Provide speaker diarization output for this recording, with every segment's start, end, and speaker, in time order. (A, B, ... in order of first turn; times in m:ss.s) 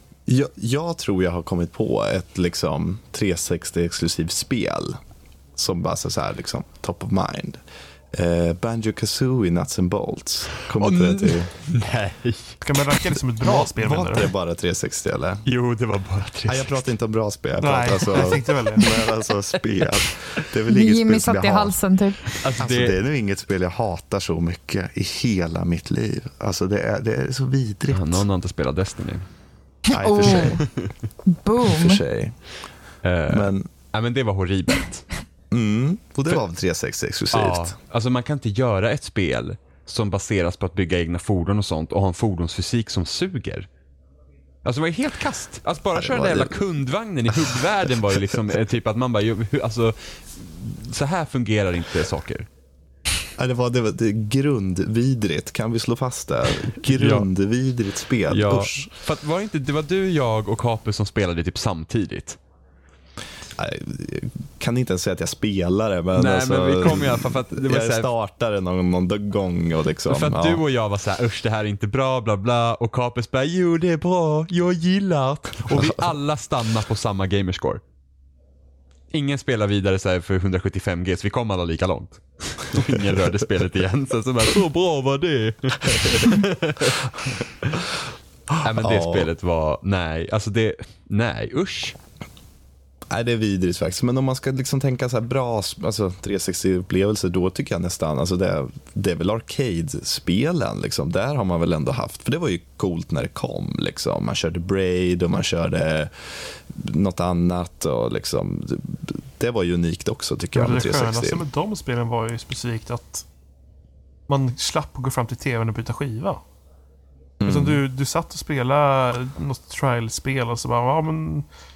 0:00.3-0:05.0 A
0:05.6-0:07.6 A
0:08.1-0:11.5 A
0:10.8-0:12.6 B
0:12.6-0:14.3 C
0:13.4-0:15.4 A
0:15.4-0:16.8 B
0:16.5-0:21.8 A
0:17.6-0:18.8 C
0:20.7-0:22.4 D
0:22.4-0:23.0 B
0:22.6-0:28.2 A
0:27.9-0:29.2 B
0:29.9-0:30.6 D
0:29.9-0:30.6 A
0:30.2-0:30.9 B
0:31.3-0:32.0 D
0:31.6-0:32.4 A
0:33.0-0:35.0 B
0:33.3-0:33.7 A
0:35.5-0:37.7 A
0:37.3-0:43.7 B
0:44.6-0:52.5 B
0:45.9-0:46.6 A
0:47.3-0:48.4 A
0:53.4-0:58.9 A
0:56.9-0:57.3 B
0:58.3-1:02.4 B
1:03.6-1:10.6 A
1:06.1-1:08.1 B
1:10.1-1:17.8 B
1:15.7-1:16.0 A
1:19.1-1:27.8 B
1:28.6-1:32.0 B
1:28.6-1:29.3 A
1:33.1-1:51.4 A
1:50.5-1:53.2 C
1:54.3-1:56.4 C
1:57.4-1:57.8 A
1:57.4-2:01.5 C